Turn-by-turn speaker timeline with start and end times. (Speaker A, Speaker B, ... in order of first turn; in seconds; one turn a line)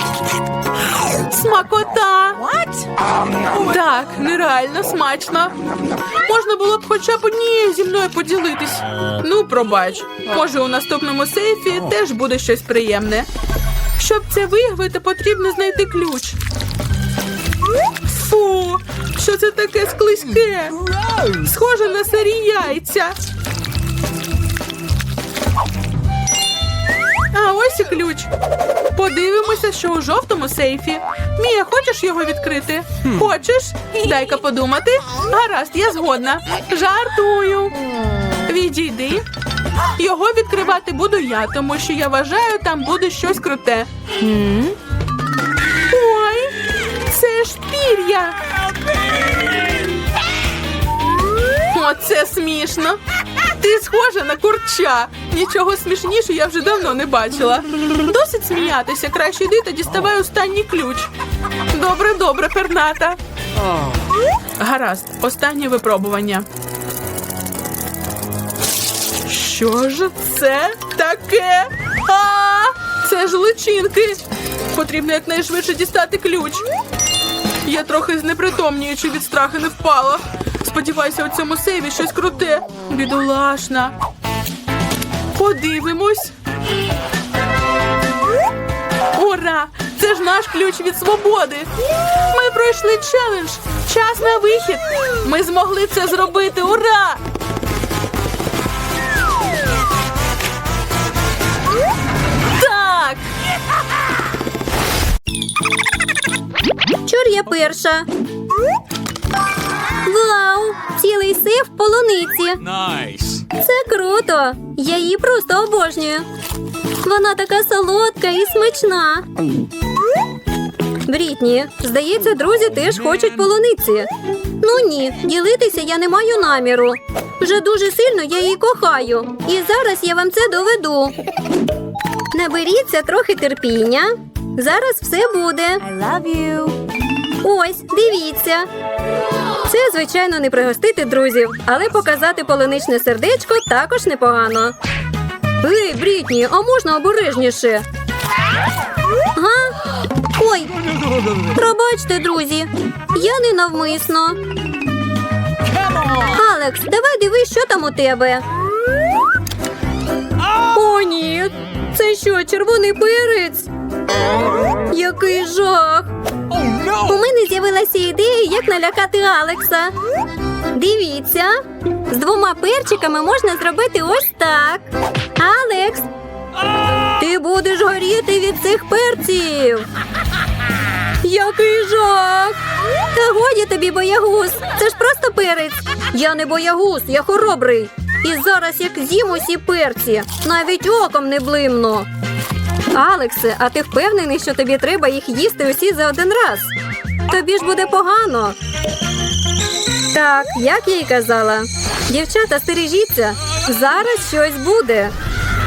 Speaker A: 1.1-2.4
Speaker B: 2.4-2.9
Speaker A: 3.5-5.5
Speaker A: 6.2-13.3
Speaker A: 14.0-16.4
Speaker A: 18.0-23.1
Speaker A: 27.3-28.3
Speaker A: 28.9-37.8
Speaker A: 38.4-39.2
Speaker A: 40.0-43.9
Speaker B: 44.2-44.8
Speaker A: 45.9-48.4
Speaker A: 51.7-61.1
Speaker A: 61.7-63.2
Speaker A: 64.6-66.5
Speaker A: 69.2-76.6
Speaker A: 77.6-83.9
Speaker A: 85.3-86.3
Speaker A: 89.1-91.7
Speaker A: 92.3-97.2
Speaker A: 102.5-103.2
Speaker C: 107.0-108.1
Speaker C: 110.0-112.8
Speaker C: 113.5-116.2
Speaker C: 117.0-119.3
Speaker C: 121.0-124.1
Speaker C: 124.6-131.2
Speaker C: 132.3-135.8
Speaker B: 135.8-136.8
Speaker C: 137.4-138.7
Speaker C: 139.6-144.8
Speaker C: 145.6-147.8
Speaker C: 149.3-150.7
Speaker C: 151.4-154.4
Speaker C: 156.3-158.4
Speaker C: 160.6-163.7
Speaker C: 164.9-166.1
Speaker C: 166.9-169.9
Speaker C: 170.7-176.1
Speaker C: 177.1-179.9
Speaker C: 181.2-182.6
Speaker C: 183.1-192.1
Speaker C: 192.9-196.7
Speaker C: 197.3-198.6
Speaker C: 200.1-205.1